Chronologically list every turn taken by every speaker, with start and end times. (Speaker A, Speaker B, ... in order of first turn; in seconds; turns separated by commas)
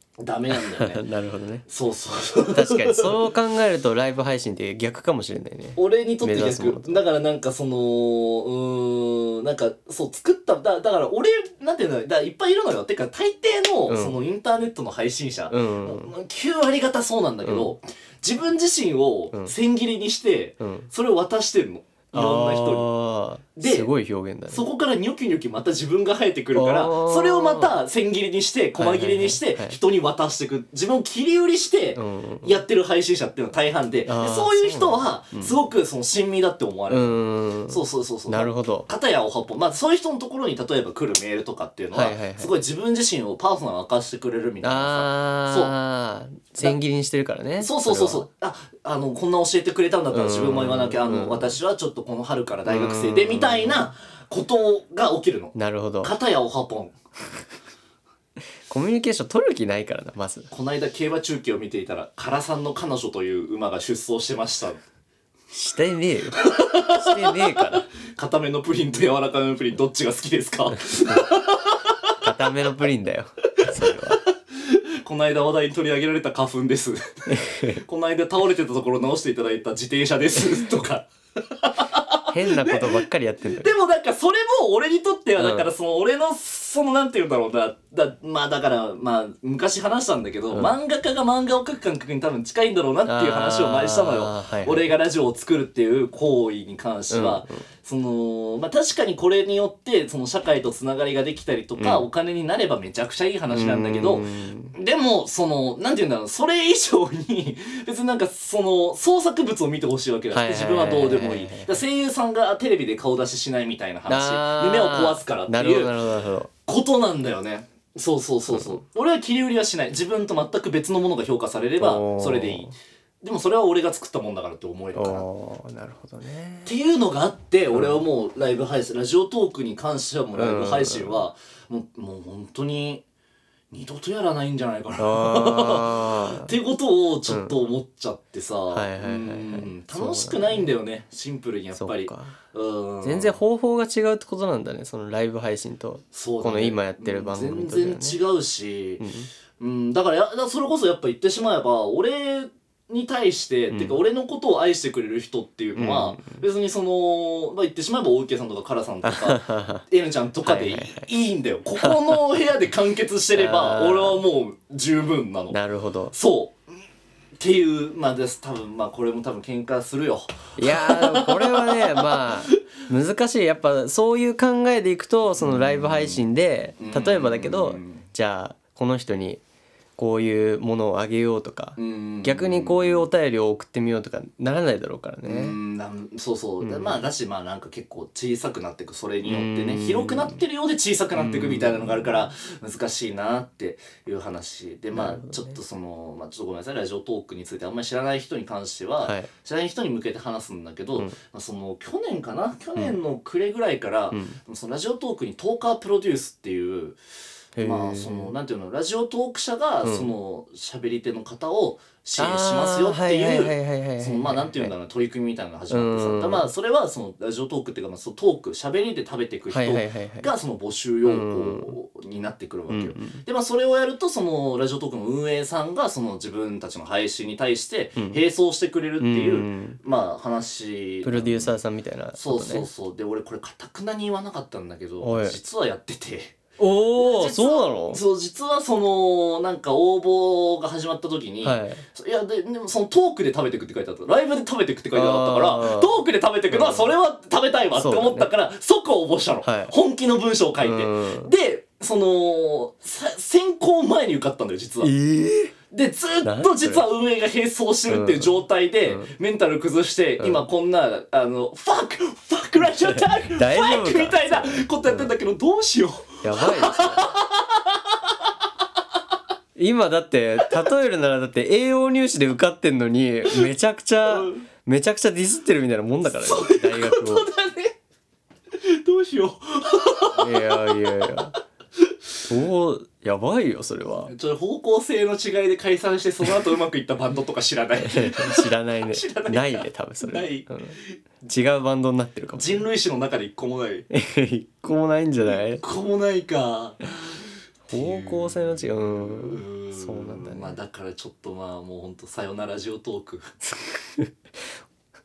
Speaker A: 0.2-1.0, Speaker B: 0.5-1.6, Speaker A: 1.7-3.1, Speaker B: 2.5-7.0, Speaker A: 5.8-22.9, Speaker B: 13.9-14.2, Speaker B: 15.5-16.1, Speaker B: 17.4-17.7, Speaker B: 20.6-20.9, Speaker B: 22.1-24.7, Speaker A: 23.6-23.9, Speaker A: 24.5-45.7, Speaker B: 26.5-27.8, Speaker B: 28.8-29.8, Speaker B: 31.9-32.6, Speaker B: 34.1-35.5, Speaker B: 36.9-38.9, Speaker B: 41.9-42.5, Speaker B: 44.6-48.3, Speaker A: 47.6-57.0, Speaker B: 50.1-51.5, Speaker B: 52.7-53.9, Speaker B: 55.5-56.1, Speaker B: 58.7-60.5, Speaker A: 60.5-64.8, Speaker B: 65.5-67.9, Speaker A: 66.4-71.9, Speaker B: 72.2-74.2, Speaker A: 73.9-82.9, Speaker B: 77.3-77.8, Speaker B: 82.3-83.7, Speaker A: 83.6-116.0, Speaker B: 85.4-85.7, Speaker B: 93.1-94.9, Speaker B: 97.1-97.6, Speaker B: 101.8-102.0, Speaker B: 103.5-104.7, Speaker B: 110.3-111.8, Speaker B: 114.1-116.5, Speaker A: 116.7-125.3, Speaker B: 118.5-118.8, Speaker B: 121.8-122.7, Speaker B: 124.9-126.7, Speaker A: 126.7-133.0, Speaker B: 127.7-128.0, Speaker B: 130.3-131.2, Speaker A: 133.7-143.4, Speaker B: 135.0-136.6, Speaker B: 137.3-137.6, Speaker B: 138.7-140.7, Speaker B: 141.7-142.4, Speaker B: 143.0-148.2, Speaker A: 146.1-149.1, Speaker B: 149.0-149.3, Speaker A: 149.6-165.6, Speaker B: 153.7-154.0, Speaker B: 155.8-156.4, Speaker B: 159.0-159.9, Speaker B: 160.4-161.1, Speaker B: 161.8-162.2, Speaker B: 163.3-164.2, Speaker B: 165.5-166.1, Speaker A: 166.1-166.6, Speaker A: 167.4-172.4, Speaker B: 170.6-179.4, Speaker A: 175.4-176.2, Speaker A: 176.8-178.1, Speaker B: 180.0-185.6, Speaker A: 181.8-183.1, Speaker A: 185.2-207.0, Speaker B: 186.6-187.0, Speaker B: 189.2-190.4, Speaker B: 191.1-192.3, Speaker B: 194.9-195.6, Speaker B: 199.0-199.3, Speaker B: 204.1-204.4, Speaker B: 207.6-208.3, Speaker A: 207.6-231.6, Speaker B: 209.8-210.1, Speaker B: 212.2-214.7, Speaker B: 215.7-216.5, Speaker B: 219.5-220.3, Speaker B: 221.1-221.7, Speaker B: 222.7-223.2, Speaker B: 229.0-229.8, Speaker B: 231.0-232.7, Speaker A: 232.2-236.4, Speaker B: 235.0-235.4, Speaker B: 236.6-238.0, Speaker A: 237.0-254.9, Speaker B: 241.4-241.8, Speaker B: 244.9-245.9, Speaker B: 246.5-246.9, Speaker B: 247.8-248.3, Speaker B: 249.4-249.7, Speaker B: 250.6-251.3, Speaker B: 254.8-255.6, Speaker A: 255.7-267.8, Speaker B: 256.2-256.9, Speaker B: 257.9-259.1, Speaker B: 260.2-260.4, Speaker B: 262.6-265.1, Speaker B: 266.2-267.1, Speaker B: 269.6-277.3, Speaker A: 274.1-274.4, Speaker A: 276.1-277.7, Speaker A: 278.6-280.8, Speaker B: 280.2-281.4, Speaker B: 282.3-284.1, Speaker A: 284.1-291.0, Speaker B: 287.8-292.6, Speaker A: 292.4-293.9, Speaker B: 293.9-295.6, Speaker A: 295.3-303.4, Speaker B: 297.7-300.6